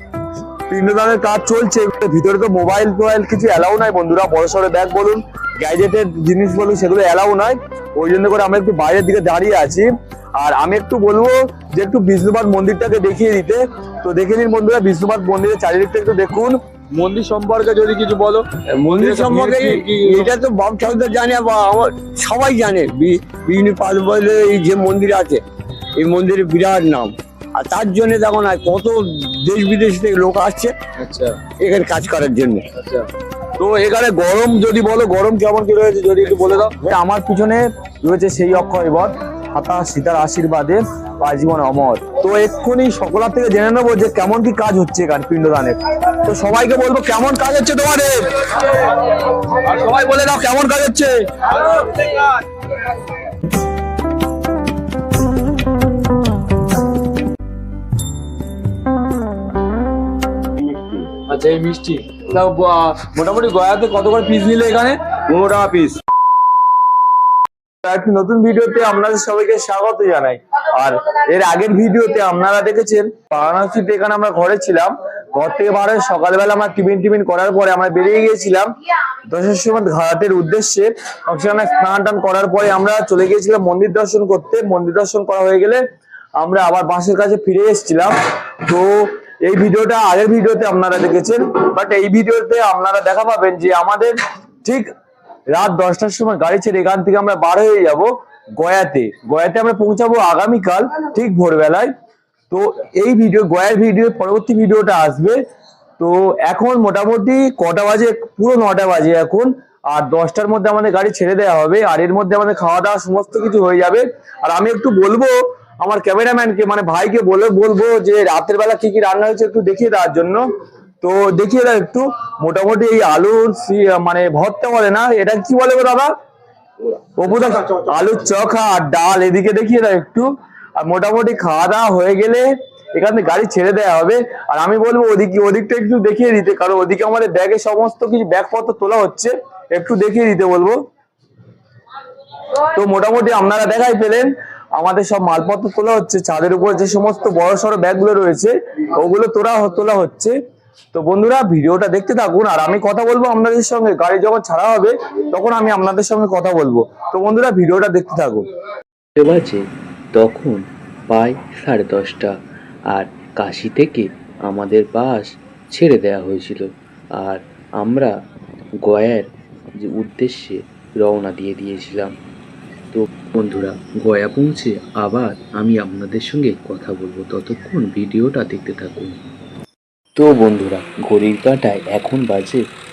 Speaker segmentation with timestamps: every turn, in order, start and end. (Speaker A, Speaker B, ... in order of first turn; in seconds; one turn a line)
Speaker A: 0.7-20.3
Speaker B: 18.8-25.4
Speaker B: 25.9-30.8
Speaker A: 31.0-31.4
Speaker B: 31.6-32.6
Speaker A: 32.8-33.1
Speaker A: 33.6-51.9
Speaker B: 60.6-61.1
Speaker A: 61.2-65.0
Speaker B: 65.3-66.0
Speaker A: 67.8-78.7
Speaker A: 79.3-85.8
Speaker A: 86.4-88.1
Speaker A: 88.6-94.1
Speaker A: 95.5-101.9
Speaker A: 102.5-105.4
Speaker A: 106.0-120.4
Speaker A: 121.0-126.1
Speaker A: 127.2-140.8
Speaker A: 142.6-150.3
Speaker A: 150.9-158.4
Speaker C: 159.2-162.4
Speaker C: 162.9-168.2
Speaker C: 168.8-172.2
Speaker C: 172.9-179.2
Speaker C: 180.2-182.7